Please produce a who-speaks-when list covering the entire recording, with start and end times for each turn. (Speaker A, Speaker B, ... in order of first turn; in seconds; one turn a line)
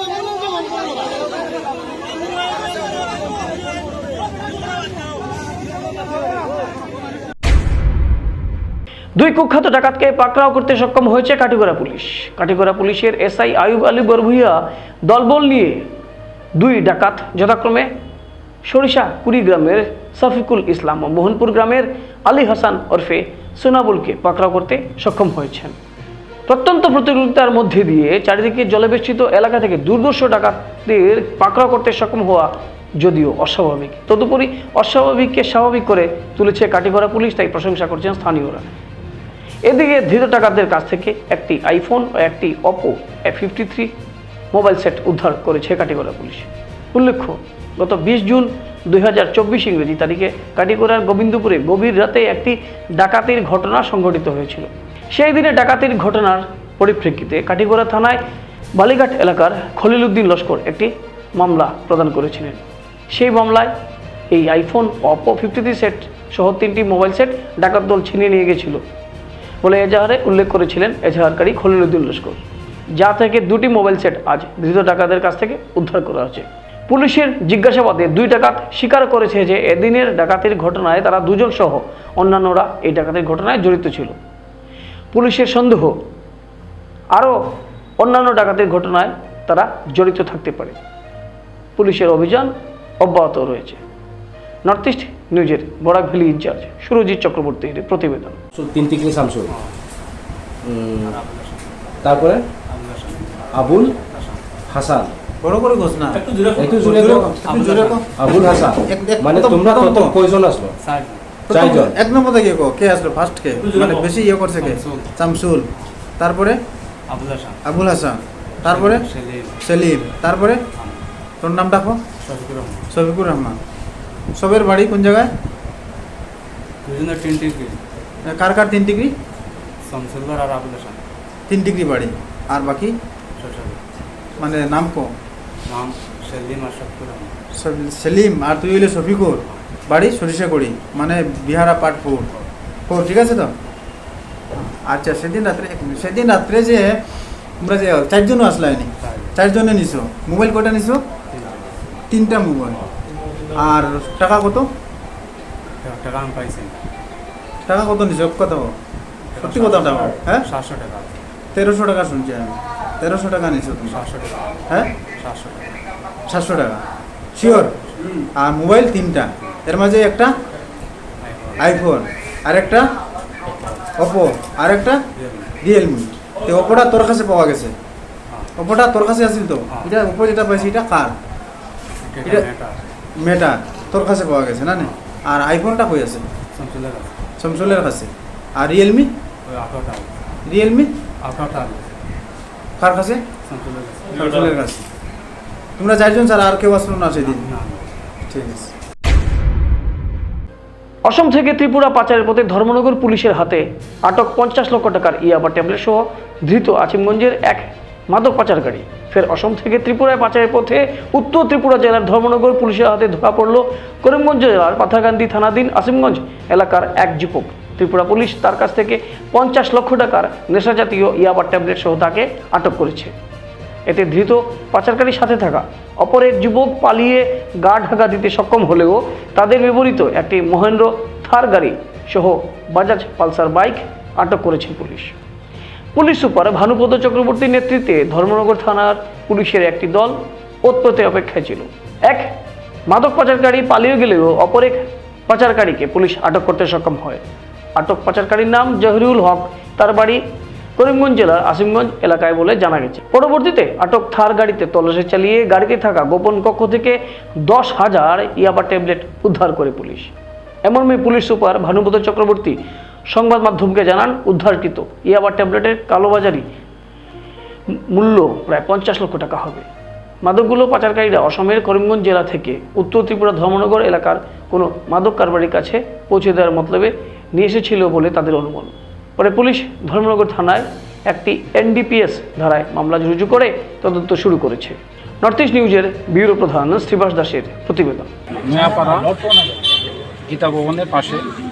Speaker A: 9.2-15.9
Speaker A: 16.6-17.9
Speaker A: 18.6-25.7
Speaker A: 26.5-38.7
Speaker A: 39.6-43.9
Speaker A: 44.5-58.2
Speaker A: 58.7-63.7
Speaker A: 64.3-68.8
Speaker A: 69.6-72.4
Speaker A: 73.0-84.2
Speaker A: 85.1-86.0
Speaker A: 87.1-90.8
Speaker A: 91.8-93.8
Speaker A: 94.6-98.4
Speaker B: 98.5-99.5
Speaker B: 100.6-101.2
Speaker C: 101.2-101.7
Speaker B: 102.0-102.5
Speaker C: 102.7-103.4
Speaker B: 103.5-104.0
Speaker C: 104.1-104.4
Speaker B: 104.7-105.1
Speaker D: 105.4-110.2
Speaker B: 106.5-110.8
Speaker C: 110.9-111.2
Speaker D: 111.5-115.7
Speaker B: 111.5-112.0
Speaker C: 113.8-114.1
Speaker C: 114.6-115.0
Speaker D: 116.2-116.6
Speaker C: 117.1-117.6
Speaker D: 117.6-119.1
Speaker C: 118.7-119.5
Speaker D: 119.6-120.6
Speaker D: 121.4-122.0
Speaker C: 122.2-122.8
Speaker D: 122.9-123.6
Speaker D: 124.4-125.3
Speaker C: 126.8-127.8
Speaker D: 128.3-129.1
Speaker C: 129.9-131.0
Speaker D: 131.5-132.9
Speaker C: 133.4-133.8
Speaker D: 134.4-135.1
Speaker C: 135.7-137.4
Speaker D: 137.5-142.3
Speaker D: 142.9-143.5
Speaker D: 144.6-147.0
Speaker D: 147.6-151.0
Speaker D: 152.1-152.8
Speaker D: 153.5-154.7
Speaker C: 155.8-156.8
Speaker D: 157.7-158.7
Speaker C: 159.3-159.9
Speaker D: 159.4-160.5
Speaker C: 160.6-161.1
Speaker D: 161.5-164.0
Speaker C: 164.1-164.6
Speaker C: 165.2-165.7
Speaker D: 166.3-170.3
Speaker D: 171.6-172.9
Speaker D: 173.9-175.0
Speaker D: 175.6-177.7
Speaker D: 178.6-181.1
Speaker C: 182.0-182.9
Speaker D: 183.2-186.2
Speaker C: 186.6-187.1
Speaker D: 187.4-189.1
Speaker C: 189.5-190.1
Speaker D: 190.4-190.9
Speaker C: 191.3-191.9
Speaker D: 192.8-193.2
Speaker C: 193.5-194.0
Speaker D: 194.1-194.8
Speaker D: 195.8-197.5
Speaker D: 198.3-198.7
Speaker A: 201.0-223.1
Speaker A: 223.9-235.2
Speaker A: 235.9-242.3
Speaker A: 242.9-247.2
Speaker A: 247.8-250.2
Speaker A: 250.8-260.1
Speaker A: 260.6-262.6
Speaker A: 263.1-266.4
Speaker A: 267.7-269.7
Speaker A: 270.2-288.1
Speaker E: 288.4-289.5
Speaker E: 290.3-291.2